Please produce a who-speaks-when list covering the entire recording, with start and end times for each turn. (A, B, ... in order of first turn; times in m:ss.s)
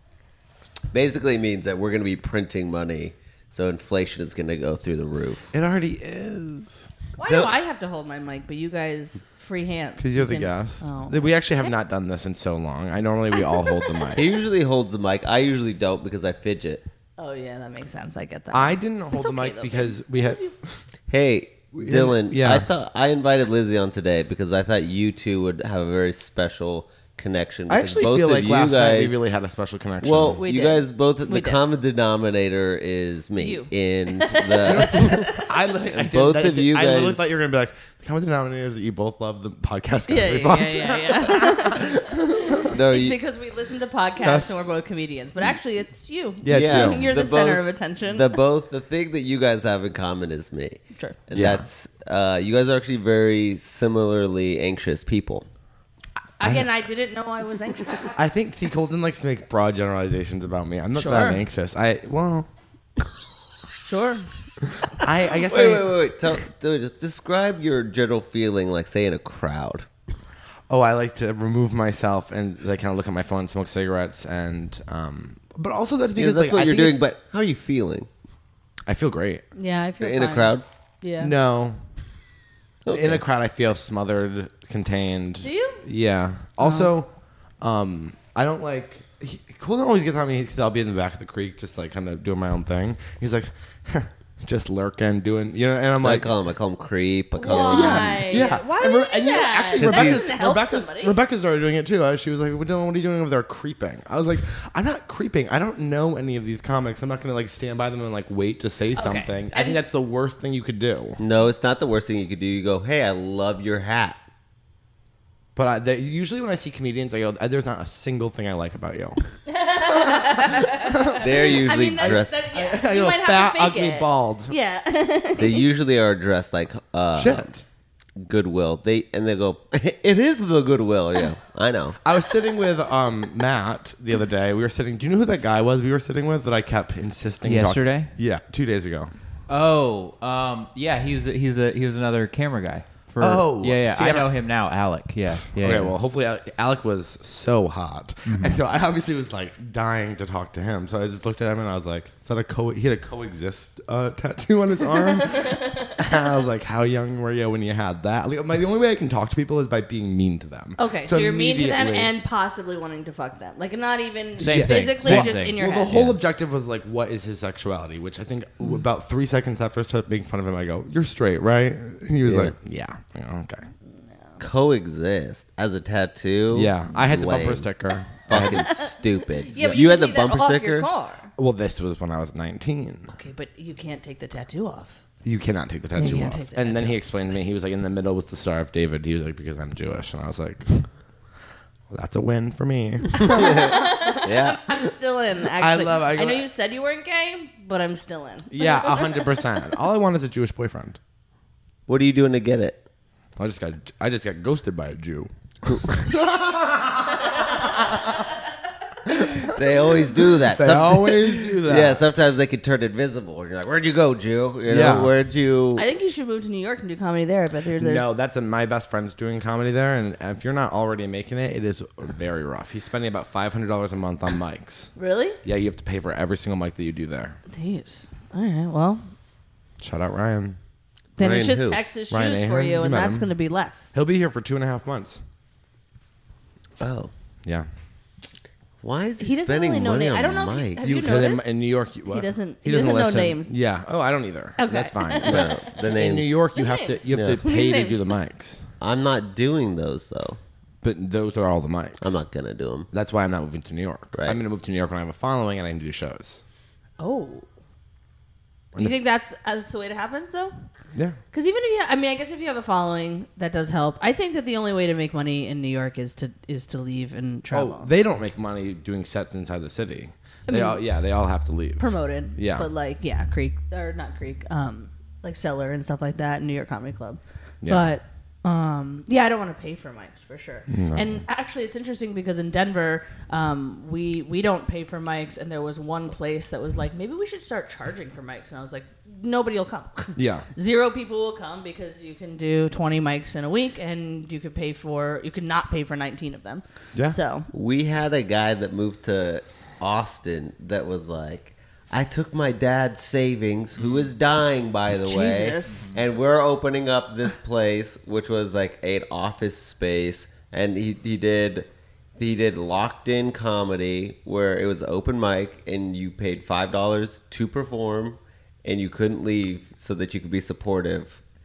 0:00.9-0:05.5 A
0:05.5-0:06.9 B
0:07.2-0:11.7 C
0:07.3-0:07.6 A
0:10.0-0:14.3 B
0:13.6-0:14.1 C
0:14.1-0:16.9 A
0:17.2-0:20.5 C
0:18.5-0:20.8 B
0:21.1-0:29.2 A
0:21.8-0:22.7 B
0:27.7-0:30.4 B
0:30.0-0:37.3 A
0:30.4-0:31.6 C
0:33.4-0:35.4 C
0:34.6-0:42.7 B
0:40.1-0:48.4 C
0:42.6-0:43.2 A
0:44.2-0:44.6 B
0:46.4-0:47.1 B
0:46.5-0:55.5 A
0:51.3-0:51.7 B
0:56.4-0:58.2 C
0:56.4-0:56.7 B
0:58.2-1:02.5 B
1:01.0-1:01.4 C
1:03.9-1:04.3 C
1:04.8-1:06.0 B
1:05.3-1:09.9 A
1:10.7-1:17.0 B
1:16.2-1:18.1 A
1:18.9-1:19.4 B
1:19.6-1:21.3 C
1:20.0-1:20.6 A
1:21.2-1:21.8 B
1:22.8-1:23.2 A
1:22.9-1:36.3 B
1:25.4-1:25.8 C
1:26.6-1:26.9 C
1:36.0-1:38.4 A
1:37.4-1:41.2 C
1:37.5-1:51.2 B
1:39.8-1:40.3 A
1:49.0-1:49.8 C
1:51.2-1:54.2 A
1:55.6-1:59.2 B
1:59.5-2:05.7 C
1:59.7-2:04.6 B
2:01.1-2:02.5 A
2:05.4-2:07.5 A
2:07.1-2:07.6 B
2:08.2-2:12.0 A
2:12.0-2:19.1 B
2:17.4-2:18.1 D
2:19.5-2:26.0 D
2:23.2-2:24.3 B
2:25.6-2:42.1 B
2:28.3-2:28.6 D
2:35.2-2:36.0 C
2:40.8-2:46.0 C
2:44.4-2:46.2 D
2:44.4-2:53.7 B
2:52.2-2:52.6 A
2:54.4-2:57.7 A
2:56.5-2:58.8 B
2:58.3-3:00.9 A
2:58.3-3:01.3 C
3:01.4-3:03.1 B
3:03.1-3:05.0 C
3:05.2-3:10.9 B
3:06.0-3:07.0 C
3:11.9-3:14.2 B
3:13.2-3:19.5 C
3:13.3-3:14.6 A
3:15.6-3:16.5 B
3:18.5-3:21.0 B
3:21.9-3:22.8 A
3:23.4-3:28.2 B
3:29.1-3:35.8 A
3:30.3-3:32.1 B
3:34.7-3:35.1 B
3:35.8-3:38.1 C
3:37.8-3:44.9 B
3:45.0-3:45.4 C
3:45.4-3:47.4 B
3:47.5-3:49.0 C
3:49.8-3:50.6 B
3:51.2-3:54.0 C
3:51.2-3:51.8 A
3:52.1-3:53.3 B
3:53.9-3:55.2 B
3:56.8-3:57.1 A
3:58.8-4:01.2 A
3:59.2-4:03.6 C
4:00.8-4:08.6 B
4:04.6-4:05.7 C
4:05.2-4:06.4 A
4:06.6-4:08.2 C
4:07.1-4:07.4 A
4:08.8-4:10.4 A
4:10.8-4:12.2 B
4:12.0-4:12.9 A
4:12.9-4:16.4 B
4:14.1-4:14.4 A
4:17.0-4:17.5 C
4:18.8-4:20.5 C
4:21.3-4:27.9 C
4:27.5-4:32.7 B
4:30.5-4:30.8 C
4:31.8-4:57.5 C
4:37.6-4:37.9 B
4:40.7-4:41.2 B
4:50.2-4:50.5 B
4:57.5-5:21.2 A
5:03.8-5:04.1 D
5:05.0-5:06.0 C